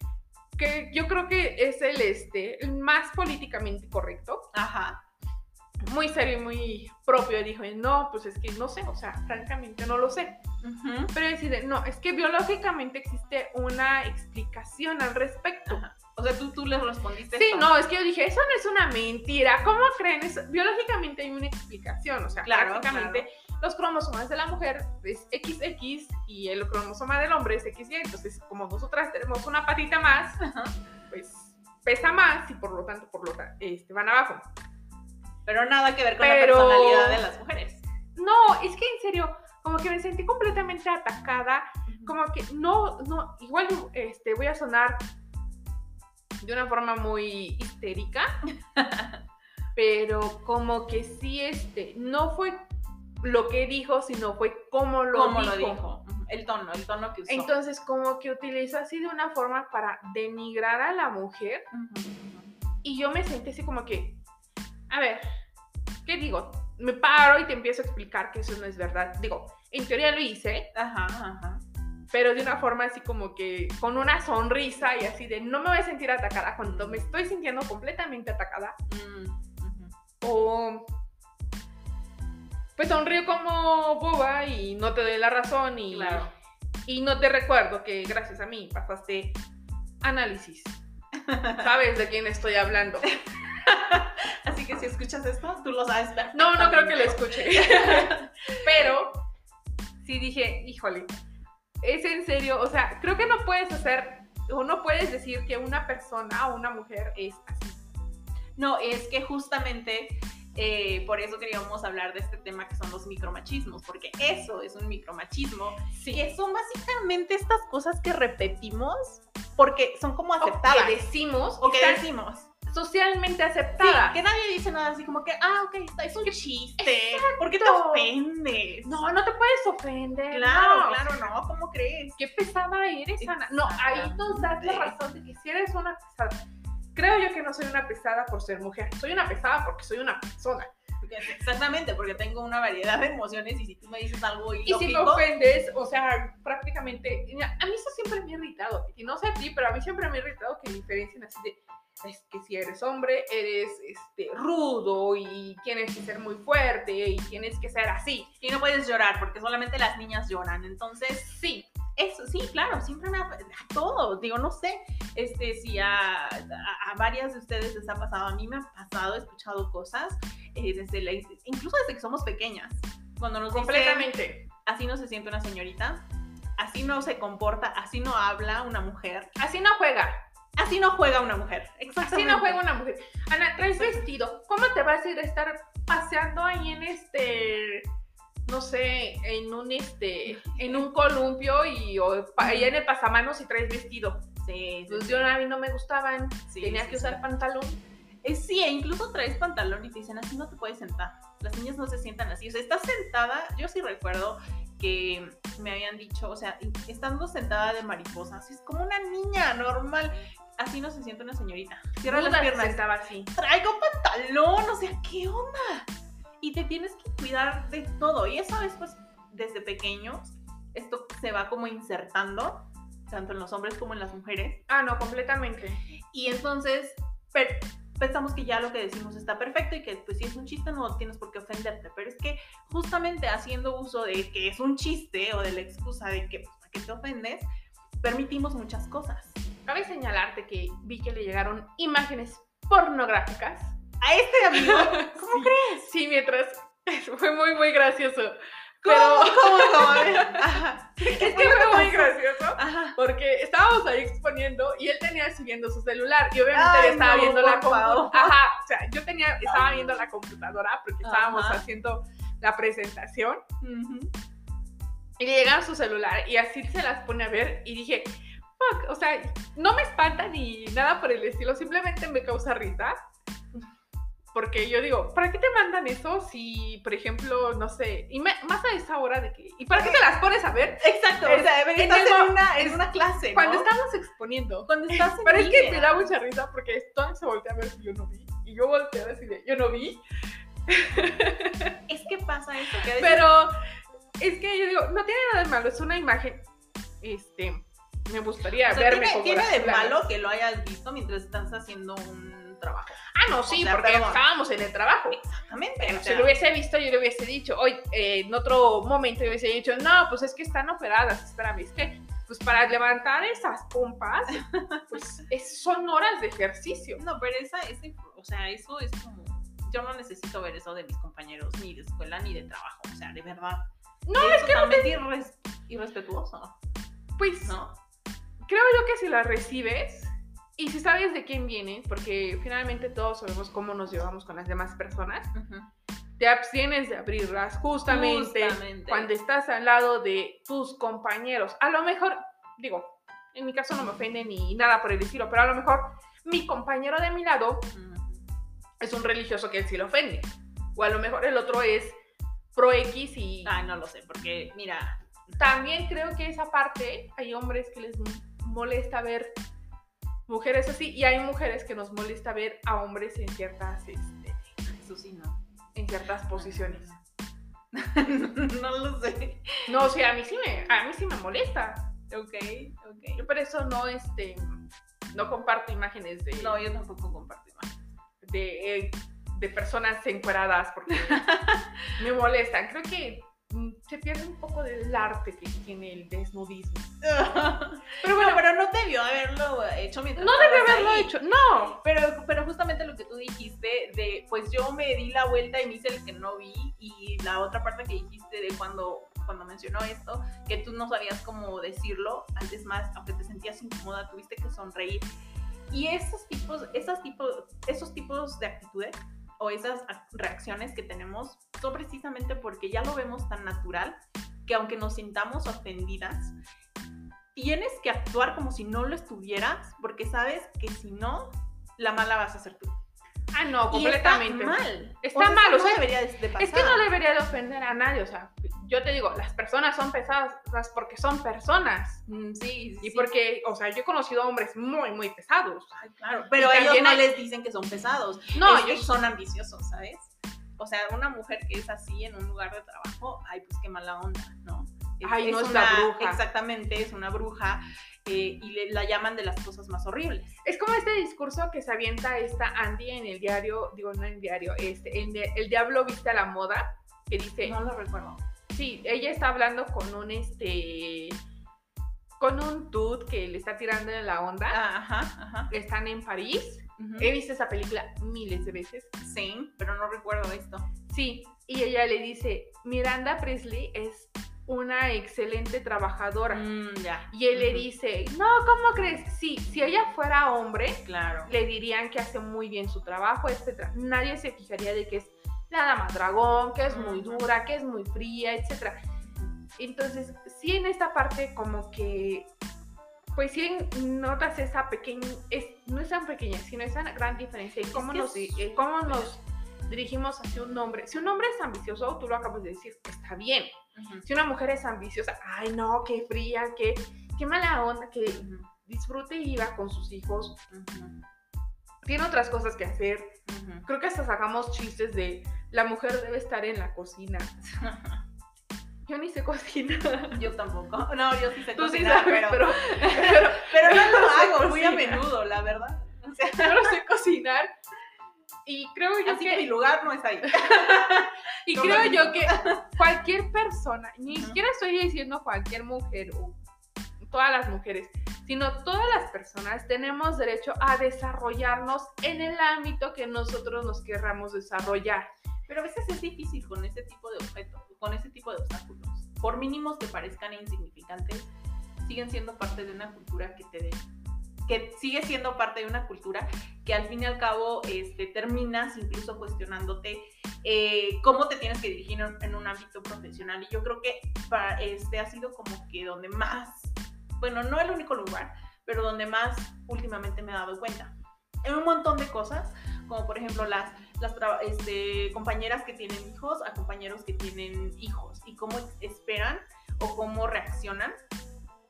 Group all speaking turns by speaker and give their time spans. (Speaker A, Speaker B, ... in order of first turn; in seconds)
Speaker A: 0.6-4.5, 5.8-10.4, 11.1-15.8, 17.3-30.4, 31.1-34.5, 36.2-37.2, 38.1-45.0, 46.4-48.4, 49.8-52.6, 53.2-55.8, 57.3-61.6, 62.8-64.2, 64.9-65.2, 66.0-70.7, 72.1-78.8, 80.2-80.9, 82.8-86.2, 86.8-89.4, 90.0-90.8, 91.5-93.1, 96.3-99.2, 100.0-101.1, 101.8-107.9, 115.9-116.2, 120.4-122.0, 122.7-124.2, 126.2-128.1, 128.8-131.3, 132.2-136.4, 136.9-140.7, 144.7-158.3, 161.3-161.7, 173.5-174.4, 179.4-180.1, 181.9-187.9, 188.4-194.2, 194.9-197.8, 212.0-213.3, 224.7-225.8, 239.7-243.8, 244.5-263.4, 265.2-273.0, 274.3-290.0, 290.7-291.8, 292.8-293.5, 294.2-296.4, 297.0-300.1, 303.1-305.2, 305.8-317.0, 324.1-325.0, 327.2-327.6, 328.5-335.3, 336.2-347.7, 348.8-352.0, 352.5-353.5, 355.4-359.3, 360.3-364.4, 365.7-366.9, 369.7-371.9, 373.1-376.6, 378.2-381.3, 382.0-387.0, 388.0-388.4, 390.1-391.8, 423.3-432.0, 432.8-435.8, 436.4-437.1, 438.3-438.9, 445.0-446.2, 450.4-457.6, 458.5-461.2, 462.2-464.6, 465.5-468.9, 470.9-476.4, 477.1-488.8, 489.6-492.3, 493.1-503.5, 504.0-510.4, 511.8-517.4, 518.9-520.2, 521.5-525.0, 526.4-527.5, 528.5-529.5, 530.2-536.4, 537.1-545.1
Speaker B: 4.5-5.0, 10.6-11.1, 15.7-17.7, 22.4-23.2, 30.4-30.8, 35.5-37.8, 41.9-42.1, 48.7-49.2, 55.1-57.5, 61.7-62.5, 70.7-71.6, 76.6-77.2, 78.9-79.9, 85.9-86.3, 91.2-91.7, 93.1-98.9, 108.6-121.0, 121.6-122.5, 123.8-129.0, 130.3-132.2, 133.2-134.9, 141.0-145.2, 158.4-161.3, 161.9-174.1, 174.6-176.0, 176.6-179.3, 180.6-182.6, 183.6-184.1, 190.4-190.8, 192.4-192.7, 194.4-195.3, 196.5-197.2, 198.2-212.8, 213.3-224.6, 226.1-237.5, 238.0-239.4, 244.0-245.8, 248.8-253.0, 256.5-258.4, 261.0-261.6, 263.6-264.1, 279.7-280.0, 280.8-283.7, 284.7-286.1, 291.9-293.2, 298.6-304.2, 305.1-306.3, 314.4-314.8, 317.0-323.6, 324.2-326.6, 327.4-327.8, 335.3-335.7, 337.8-339.1, 347.7-348.2, 353.4-355.3, 364.7-365.4, 366.3-367.0, 367.7-369.9, 372.1-373.2, 376.4-377.8, 380.9-381.8, 387.0-391.1, 391.7-405.1, 405.7-416.3, 417.3-422.7, 423.7-426.8, 432.1-433.1, 435.8-450.3, 457.4-458.2, 464.5-465.5, 466.8-467.1, 469.0-470.7, 476.3-477.6, 480.9-481.3, 486.7-487.2, 489.0-489.4, 497.7-499.1, 503.7-504.1, 508.1-508.5, 510.5-511.0, 513.3-513.6, 517.4-518.0, 520.1-526.7, 529.0-532.7, 534.1-534.4, 545.5-553.8, 554.5-581.0